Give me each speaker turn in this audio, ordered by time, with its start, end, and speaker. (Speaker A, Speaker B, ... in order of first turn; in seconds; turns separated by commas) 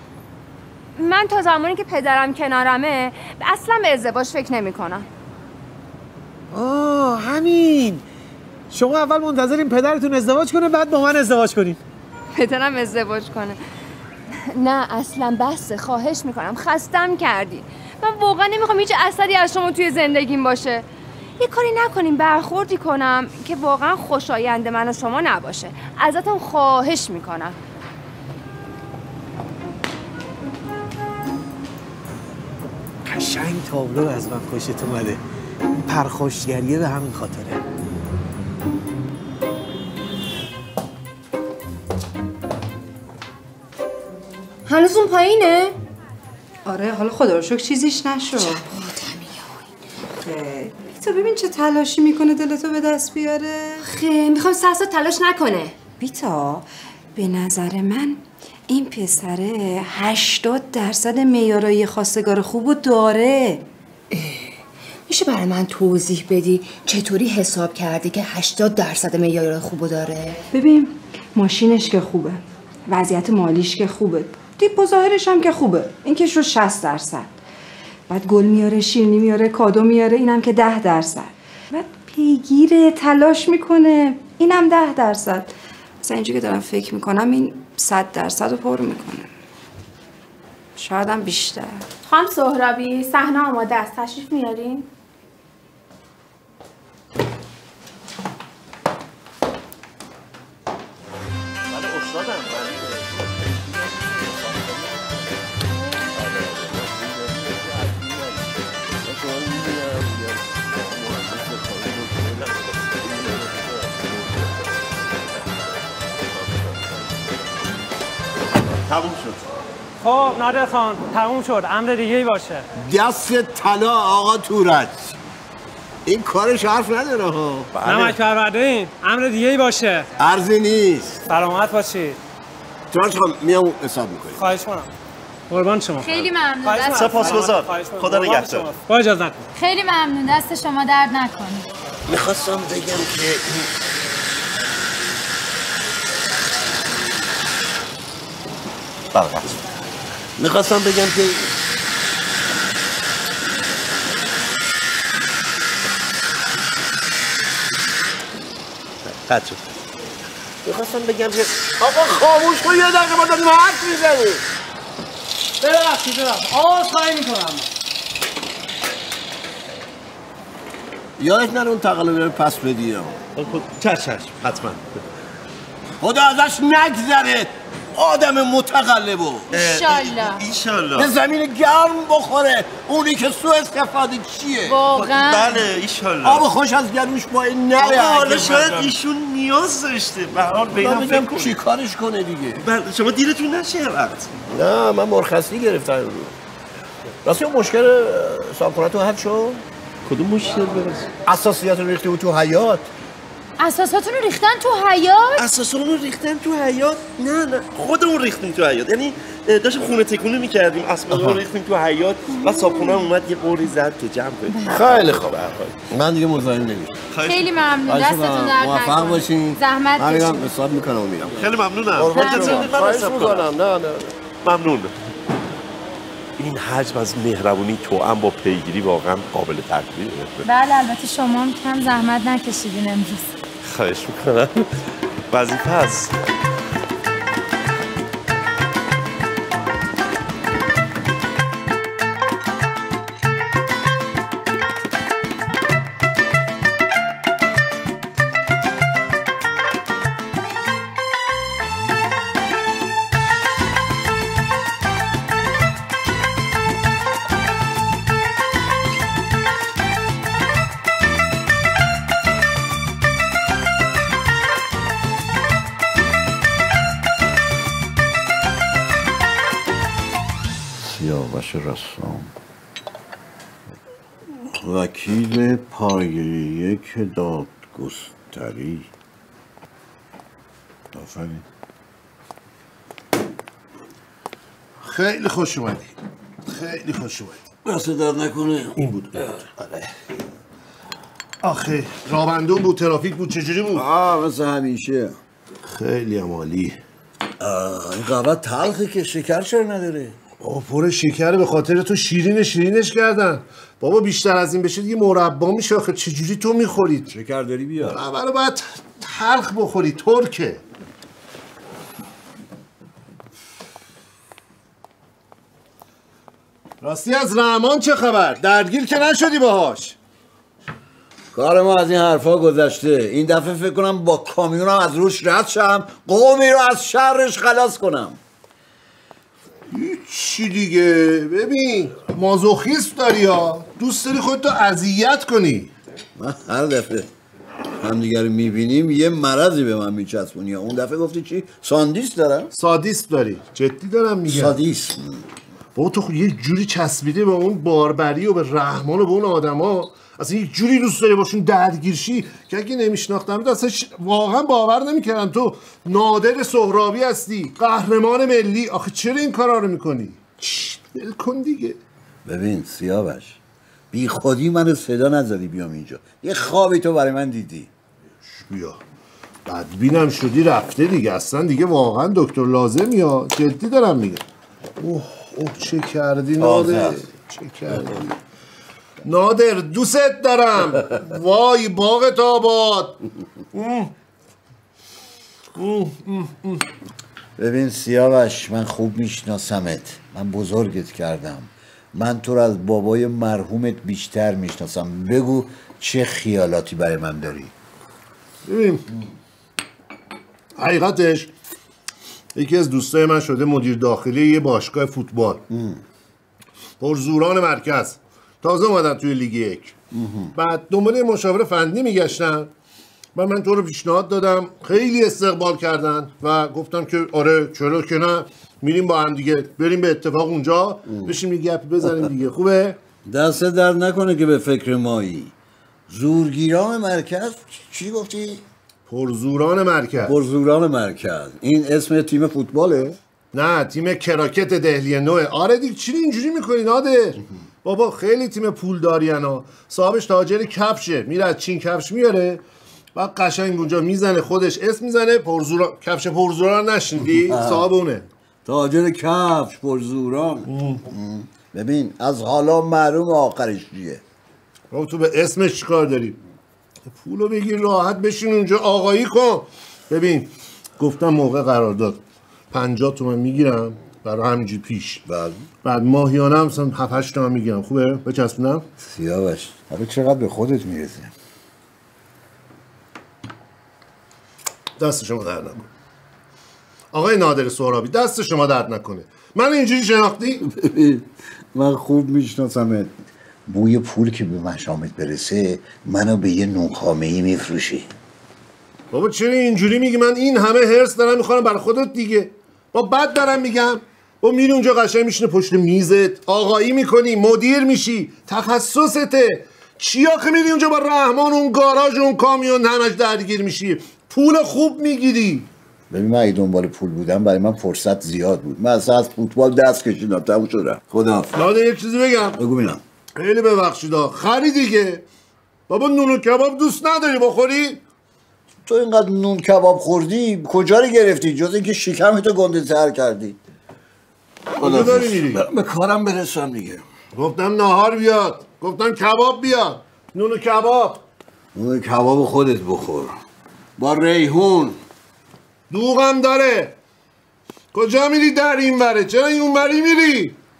Speaker A: 1.0-5.1, Speaker B: 6.5-8.0, Speaker B: 8.7-11.8, Speaker A: 12.3-13.6, Speaker A: 14.4-20.8, Speaker A: 21.4-27.6, Speaker B: 33.0-35.2, Speaker B: 35.8-37.6, Speaker A: 44.7-45.7, Speaker C: 46.6-48.6, Speaker A: 48.9-49.2, Speaker C: 50.2-53.8, Speaker A: 53.8-55.8, Speaker C: 56.0-63.7, Speaker A: 64.1-64.5, Speaker A: 65.1-70.4, Speaker C: 70.5-77.3, Speaker C: 78.1-89.3, Speaker C: 90.8-91.9, Speaker D: 92.0-94.9, Speaker E: 101.7-102.9, Speaker F: 109.1-109.9, Speaker F: 111.0-112.4, Speaker E: 118.9-119.4, Speaker G: 120.0-122.7, Speaker F: 122.8-125.1, Speaker F: 126.0-128.2, Speaker G: 127.8-130.1, Speaker F: 130.2-131.2, Speaker G: 131.3-132.2, Speaker F: 132.9-134.4, Speaker G: 134.4-134.9, Speaker G: 135.5-139.4, Speaker H: 136.0-137.4, Speaker E: 136.9-138.7, Speaker H: 139.5-141.7, Speaker F: 142.1-143.3, Speaker E: 149.1-149.4, Speaker F: 150.4-151.4, Speaker E: 159.1-159.6, Speaker E: 160.6-161.8, Speaker F: 161.8-164.3, Speaker G: 165.6-167.6, Speaker F: 171.2-173.2, Speaker E: 173.3-174.8, Speaker F: 176.0-179.5, Speaker H: 179.5-180.4, Speaker E: 179.5-181.1, Speaker F: 181.0-184.8, Speaker H: 184.6-185.7, Speaker E: 184.9-186.5, Speaker F: 186.2-189.0, Speaker E: 187.8-191.6, Speaker F: 190.7-192.6, Speaker E: 192.6-194.3, Speaker F: 194.5-196.3, Speaker F: 197.2-199.6, Speaker E: 200.1-201.1, Speaker F: 201.2-202.9, Speaker H: 203.6-205.4, Speaker E: 205.3-215.8, Speaker F: 211.1-211.4, Speaker H: 212.5-213.0, Speaker F: 214.7-215.4, Speaker F: 215.9-217.0, Speaker E: 217.1-217.5, Speaker H: 217.2-220.5, Speaker F: 217.8-224.0, Speaker E: 221.3-223.6, Speaker H: 222.1-222.7, Speaker E: 224.4-224.9, Speaker E: 226.4-230.4, Speaker H: 230.4-233.3, Speaker E: 233.6-234.7, Speaker E: 235.3-236.1, Speaker I: 270.8-272.3, Speaker I: 274.5-278.9, Speaker I: 280.9-281.4, Speaker J: 284.8-285.9, Speaker J: 286.4-287.4, Speaker I: 287.6-289.4, Speaker J: 291.4-293.8, Speaker I: 293.7-295.2, Speaker J: 295.6-296.8, Speaker I: 297.4-300.2, Speaker J: 300.4-307.1, Speaker I: 307.1-308.0, Speaker J: 307.8-310.6, Speaker J: 316.8-319.9, Speaker I: 321.3-328.2, Speaker J: 329.7-335.7, Speaker I: 336.1-337.1, Speaker I: 337.8-342.5, Speaker J: 342.5-344.6, Speaker I: 344.3-345.2, Speaker J: 345.7-361.8, Speaker I: 362.2-363.4, Speaker I: 363.9-367.7, Speaker J: 368.2-368.8, Speaker J: 369.4-374.2, Speaker J: 374.8-378.1, Speaker I: 376.4-377.0, Speaker J: 379.0-383.0, Speaker J: 383.5-383.9, Speaker J: 385.5-386.6, Speaker I: 387.4-397.5, Speaker J: 398.4-398.8, Speaker J: 400.6-401.3, Speaker J: 402.3-405.4, Speaker I: 405.5-405.8, Speaker J: 406.8-409.8, Speaker I: 409.9-410.3, Speaker J: 410.3-412.5, Speaker J: 413.1-422.8, Speaker I: 420.9-421.1, Speaker I: 423.0-425.3, Speaker I: 425.9-428.4, Speaker J: 428.9-430.1, Speaker I: 430.0-433.0, Speaker J: 433.3-442.4, Speaker J: 442.9-448.1, Speaker I: 447.0-447.7, Speaker I: 448.4-454.0, Speaker J: 450.5-450.8, Speaker J: 454.7-456.2, Speaker J: 456.9-468.6, Speaker I: 468.8-471.1, Speaker J: 474.8-475.7, Speaker J: 476.9-480.4, Speaker I: 480.4-482.9, Speaker I: 483.5-487.9, Speaker J: 488.9-505.5, Speaker I: 505.9-511.4, Speaker J: 511.3-512.4, Speaker I: 512.3-512.8, Speaker J: 513.1-515.0, Speaker J: 515.7-517.8, Speaker I: 518.6-523.4, Speaker J: 524.6-525.4, Speaker I: 524.6-526.8, Speaker F: 524.6-525.0, Speaker J: 527.1-531.0, Speaker I: 531.5-533.2, Speaker I: 533.8-534.8, Speaker J: 535.7-536.8, Speaker J: 537.7-540.4